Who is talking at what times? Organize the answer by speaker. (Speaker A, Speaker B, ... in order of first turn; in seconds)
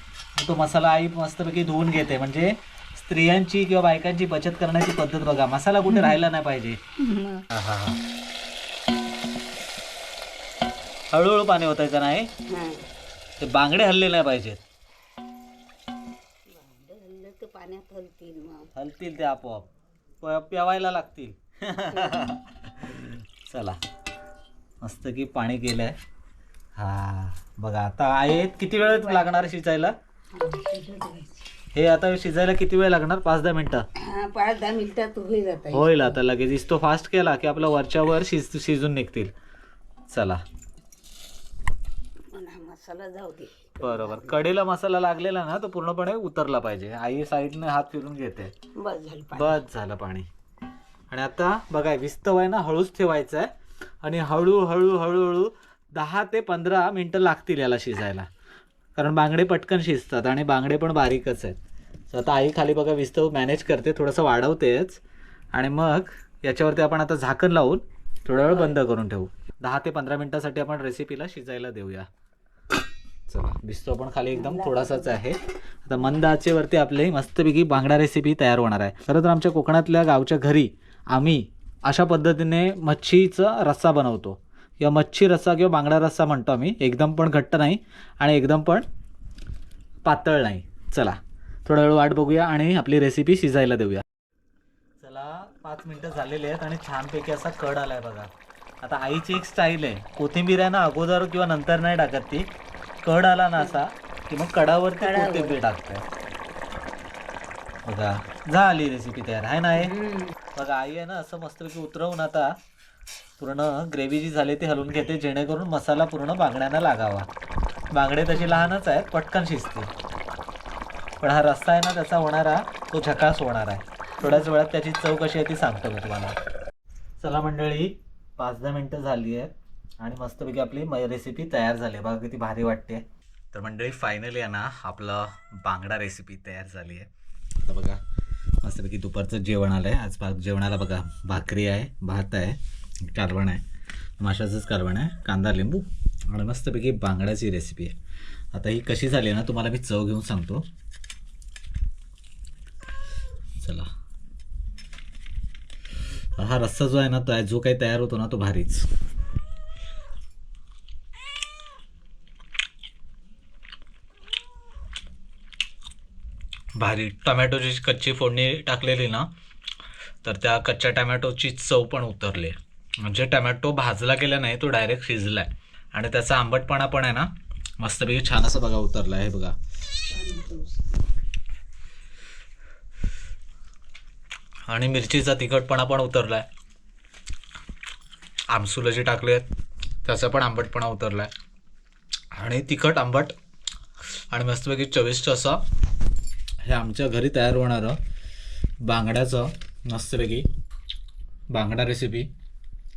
Speaker A: 0.4-6.8, 7.5-8.0, 11.1-12.3, 13.4-14.6, 18.7-19.7, 20.2-23.8, 24.8-25.9, 26.8-29.9, 31.7-33.9, 35.7-39.3, 40.1-40.4, 43.8-48.5, 49.3-50.3, 51.1-53.5, 54.0-58.3, 59.0-61.6, 62.1-65.0, 65.5-72.1, 73.3-88.8, 90.0-94.0, 95.0-98.3, 98.8-102.5, 103.0-106.0, 107.8-109.9, 110.5-112.5, 113.4-117.3, 117.9-119.9, 121.2-126.3, 127.2-137.1, 137.6-138.0, 138.6-143.6, 144.2-147.9, 148.5-150.7, 153.6-153.9, 156.4-158.9, 166.8-169.3, 170.2-179.6, 184.7-186.4, 188.5-189.4, 190.0-191.3, 192.3-193.3, 194.1-195.6, 196.6-198.0, 198.8-200.4, 201.5-202.3
Speaker B: 5.9-6.2, 7.0-7.5, 12.5-12.9, 16.5-18.7, 21.9-22.3, 28.8-29.4, 30.3-31.5, 34.0-36.2, 42.3-44.4, 48.8-49.6, 68.3-68.7, 74.3-75.2, 105.0-105.6, 109.8-110.3, 118.3-118.7, 124.2-124.4, 180.1-180.9